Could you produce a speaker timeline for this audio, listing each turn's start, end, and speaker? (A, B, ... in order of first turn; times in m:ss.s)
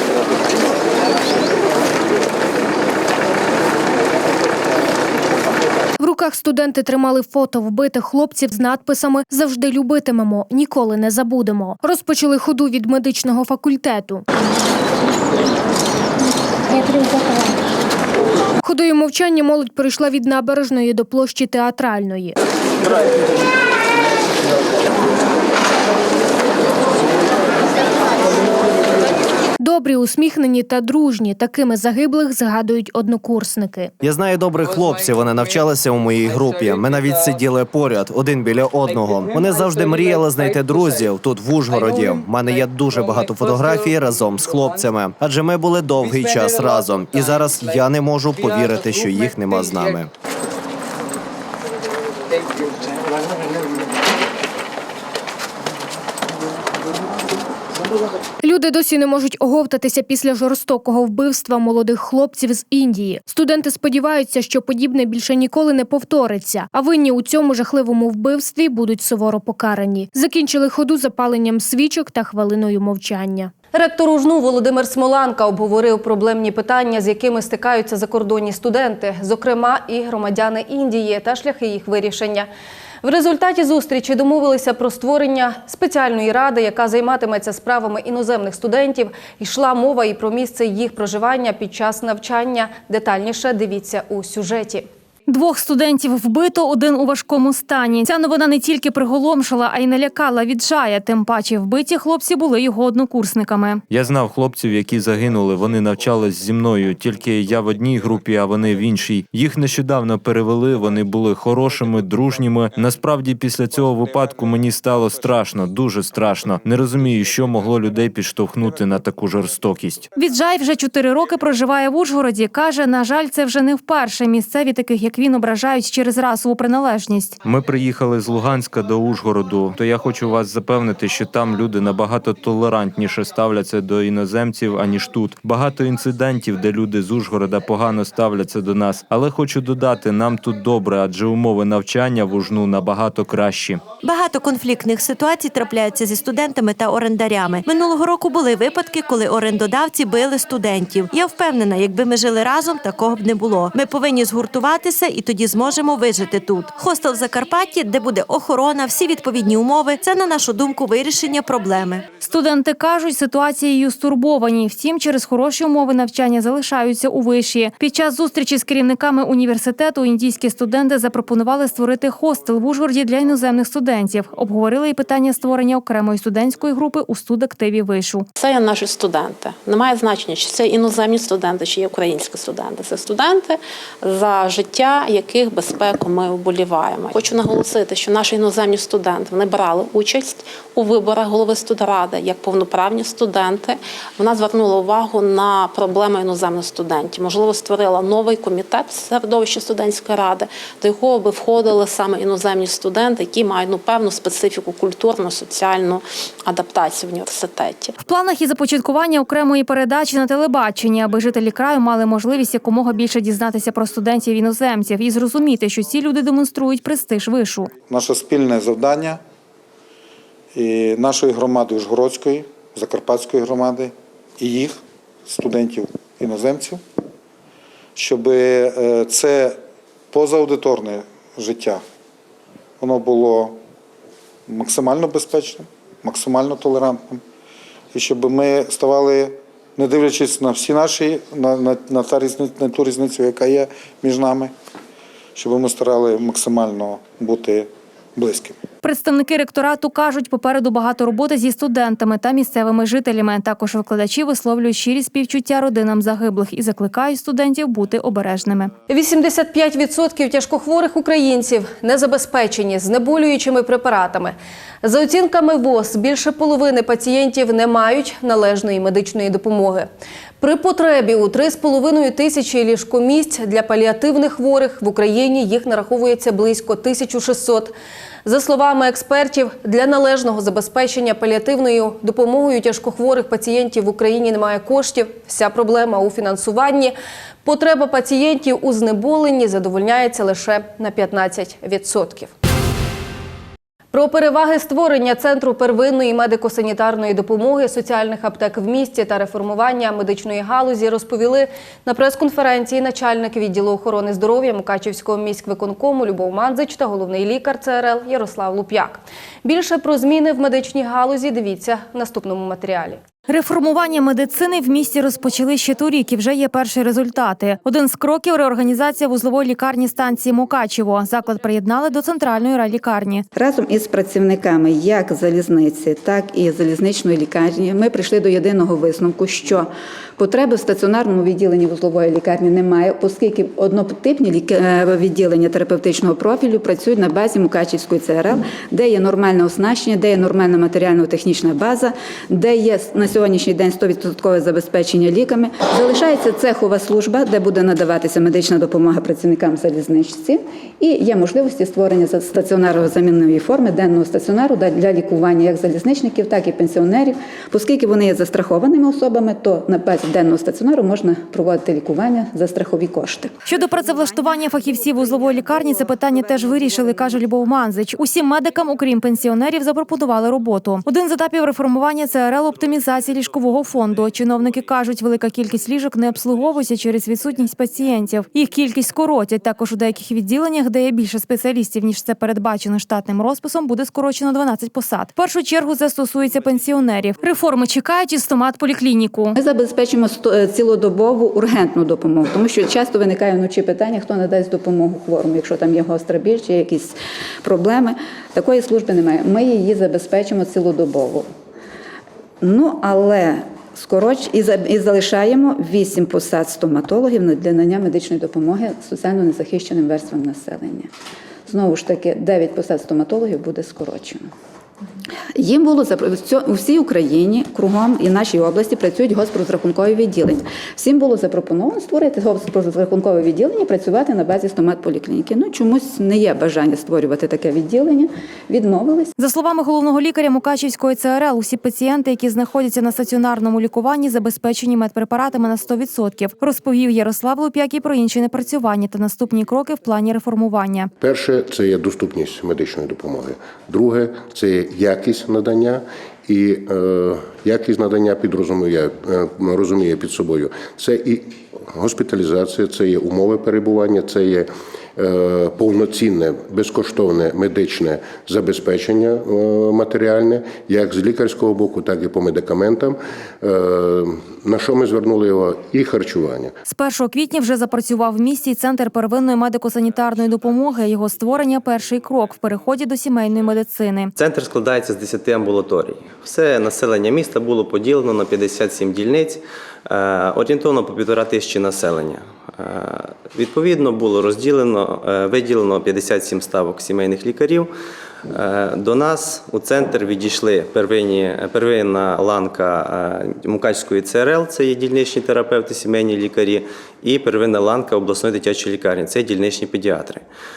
0:06.0-0:14.2 A
0:18.6-0:22.4 A
0:29.6-0:33.9 A
0:34.0-0:50.1 B
0:58.4-1:13.5 A
1:13.7-1:22.5 C
1:23.0-1:34.8 C
1:35.3-1:43.8 D
1:43.9-2:00.1 E
2:00.2-2:07.4 D
2:07.4-2:23.8 E
2:24.0-2:42.0 F
2:42.2-2:58.3 D
2:58.4-3:28.0 G
3:28.0-3:37.7 D
3:37.9-3:39.2 H
3:40.5-3:46.8 H
3:48.0-3:49.6 H
3:50.1-3:51.8 H
3:52.8-3:53.6 H
3:54.5-3:57.2 H
3:57.9-4:04.5 H
4:05.4-4:08.6 H
4:08.8-4:18.7 D
4:18.9-4:29.9 C
4:30.4-4:37.7 C
4:38.3-4:52.3 C
4:53.9-5:13.0 C
5:13.3-5:23.2 D
5:23.3-6:03.4 I
6:03.5-6:29.4 D
6:29.4-6:41.3 I
6:42.4-6:50.9 I
6:51.5-6:54.3 I
6:55.4-7:09.1 I
7:09.2-7:20.9 D
7:21.0-7:46.6 J
7:46.7-7:54.1 D
7:54.2-8:07.7 K
8:08.3-8:20.2 K